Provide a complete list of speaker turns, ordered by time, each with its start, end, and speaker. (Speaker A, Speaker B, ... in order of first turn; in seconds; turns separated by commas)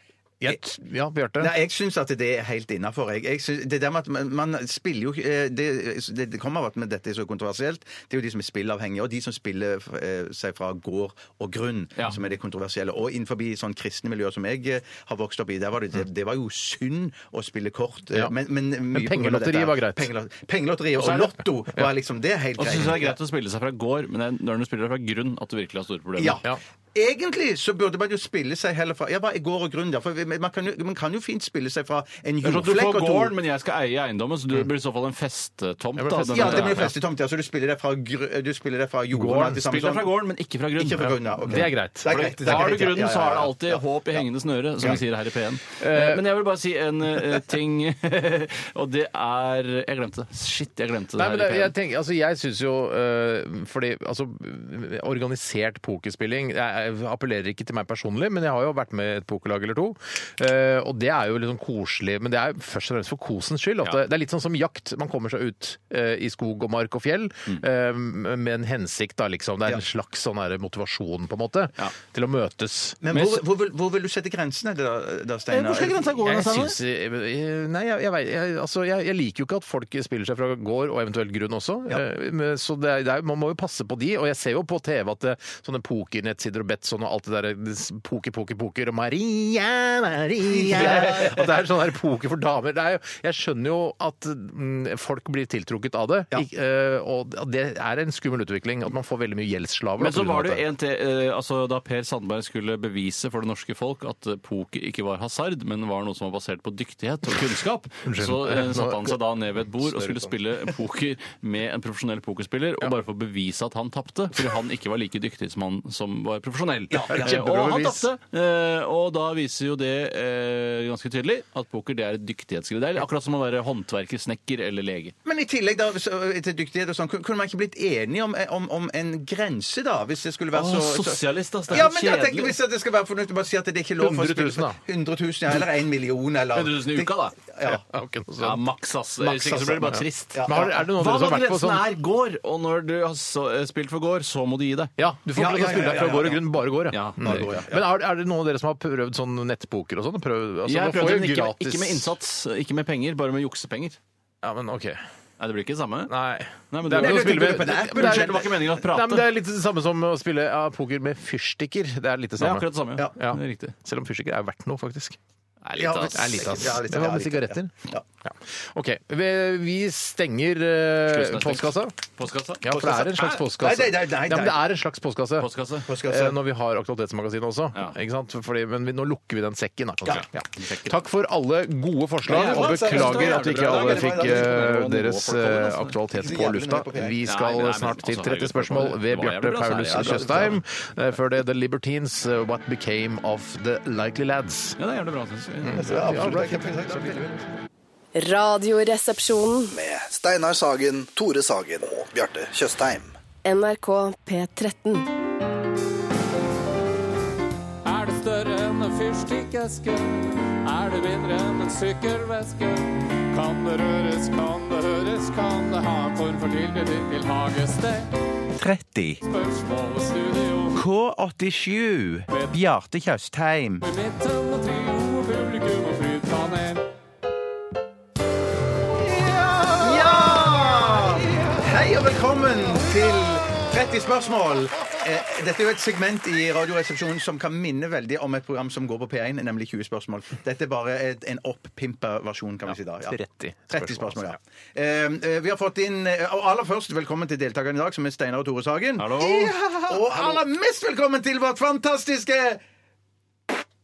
Speaker A: 0.4-1.5, Speaker B: 1.4-23.2, Speaker A: 18.9-20.1, Speaker C: 21.0-21.3, Speaker C: 22.6-26.4, Speaker B: 26.2-33.4, Speaker C: 32.4-37.0, Speaker A: 36.0-36.9, Speaker B: 36.3-40.1, Speaker A: 39.1-39.6, Speaker C: 39.5-51.7, Speaker B: 40.8-43.8, Speaker A: 41.5-42.9, Speaker A: 45.8-46.2, Speaker A: 51.2-73.0, Speaker B: 73.0-76.2, Speaker C: 73.1-73.4, Speaker C: 75.5-76.8, Speaker A: 76.2-100.7, Speaker B: 90.6-91.3, Speaker C: 90.8-91.1, Speaker C: 100.0-125.1, Speaker A: 108.0-109.2, Speaker B: 116.9-117.4, Speaker A: 117.1-118.1, Speaker B: 125.2-137.8, Speaker C: 130.5-132.6, Speaker A: 134.0-134.8, Speaker C: 136.5-137.4, Speaker A: 137.7-138.6, Speaker C: 138.4-144.9, Speaker B: 139.2-140.9, Speaker A: 139.9-141.9, Speaker A: 145.0-152.1, Speaker B: 145.4-146.4, Speaker C: 145.6-146.3, Speaker C: 146.9-147.5, Speaker B: 147.2-147.8, Speaker C: 150.7-154.0, Speaker A: 154.4-155.0, Speaker C: 155.4-156.1, Speaker A: 156.1-165.2, Speaker C: 156.7-159.3, Speaker B: 156.9-158.7, Speaker C: 162.4-163.8, Speaker C: 165.7-166.8, Speaker A: 165.8-167.7, Speaker B: 165.8-168.1, Speaker A: 168.2-172.0, Speaker C: 171.1-172.7, Speaker A: 172.6-194.8, Speaker B: 172.7-174.6, Speaker C: 175.4-175.9, Speaker B: 175.9-176.4, Speaker C: 180.1-181.0, Speaker B: 182.2-184.5, Speaker C: 182.3-185.9, Speaker B: 186.1-187.2, Speaker C: 187.2-190.6, Speaker B: 189.9-190.5, Speaker C: 194.8-196.0, Speaker A: 195.6-197.2, Speaker B: 195.8-197.4, Speaker D: 198.2-199.8, Speaker E: 199.7-203.1, Speaker D: 203.4-205.1, Speaker F: 207.8-218.1, Speaker B: 218.6-219.2, Speaker F: 219.3-220.9, Speaker B: 220.7-223.8, Speaker F: 222.3-222.6, Speaker F: 223.8-226.8, Speaker B: 229.0-252.6, Speaker A: 242.7-244.4, Speaker C: 249.0-249.6, Speaker A: 249.9-250.4